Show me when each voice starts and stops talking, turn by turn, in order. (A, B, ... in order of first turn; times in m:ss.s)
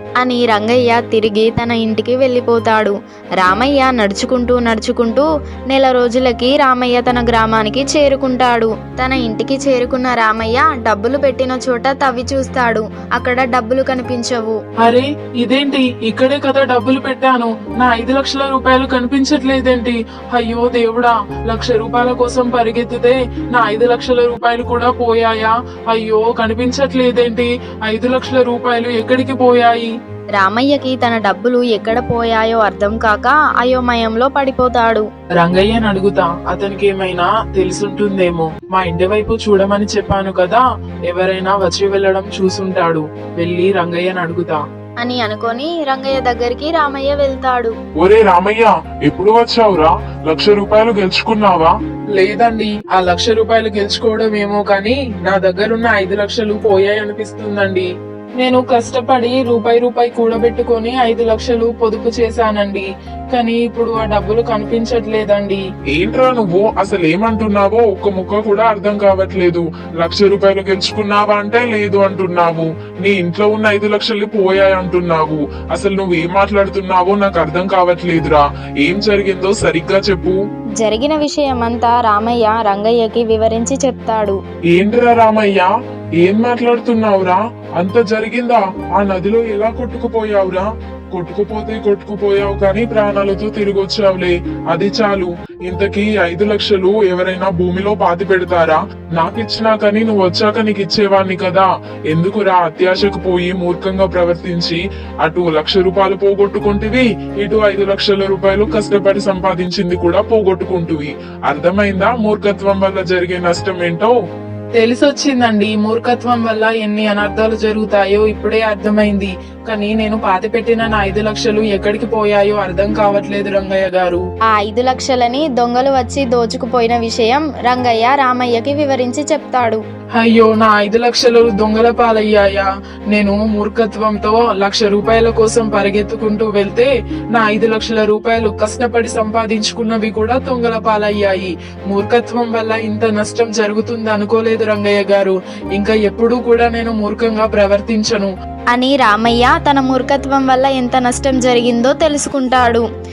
0:00.2-0:14.6 A
0:14.8-0:29.9 B
0:30.4-0:35.1 A
0:35.4-0:44.6 B
0:45.0-0:47.7 A
0:48.0-0:51.7 C
0:52.2-0:57.9 B
0:58.4-1:05.6 B
1:05.9-1:20.4 C
1:20.8-1:24.4 A
1:24.7-1:54.1 C
1:54.8-2:04.2 B
2:04.5-2:09.8 A
2:10.2-2:28.3 B
2:28.7-2:32.8 A